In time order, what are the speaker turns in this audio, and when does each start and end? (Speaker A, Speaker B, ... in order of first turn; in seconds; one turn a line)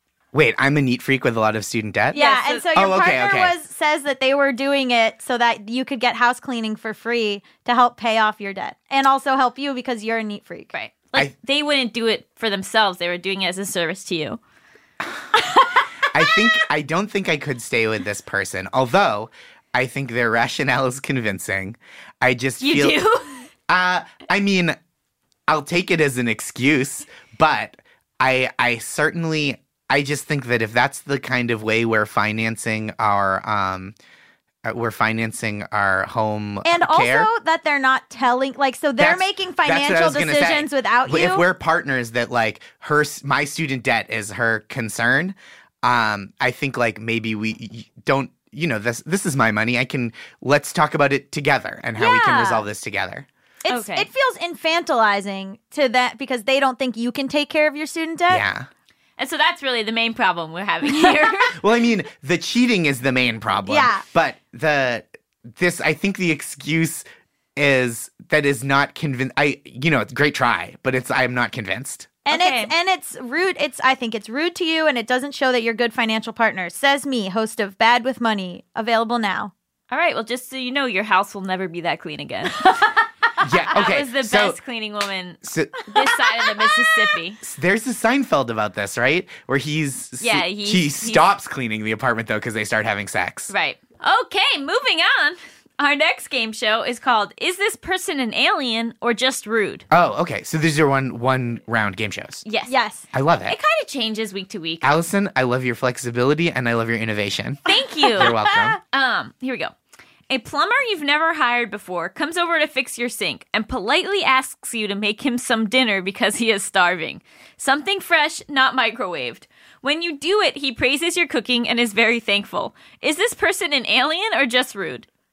Speaker A: 0.3-2.2
Speaker B: 2.1-2.7
Speaker C: 2.1-10.7
Speaker A: 2.7-3.5
Speaker B: 10.7-14.4
Speaker A: 16.1-23.0
Speaker B: 22.6-23.5
Speaker A: 23.7-24.8
Speaker A: 25.5-34.0
Speaker A: 34.6-37.3
Speaker C: 36.6-41.5
Speaker A: 39.0-53.3
Speaker C: 52.0-52.7
Speaker C: 53.6-58.4
Speaker B: 53.7-54.1
Speaker A: 58.3-58.7
Speaker B: 59.2-61.6
Speaker A: 61.5-67.0
Speaker C: 63.6-64.0
Speaker A: 67.6-72.2
Speaker C: 72.2-79.5
Speaker B: 72.3-72.7
Speaker B: 79.9-83.0
Speaker A: 83.4-84.6
Speaker B: 83.7-87.4
Speaker A: 85.4-85.9
Speaker A: 87.4-93.5
Speaker B: 90.2-91.2
Speaker B: 93.5-99.9
Speaker A: 99.9-102.5
Speaker B: 102.5-102.8
Speaker C: 102.7-103.0
Speaker A: 103.1-103.6
Speaker B: 103.5-104.9
Speaker A: 104.8-108.8
Speaker B: 107.7-109.7
Speaker C: 108.2-108.8
Speaker B: 110.3-125.1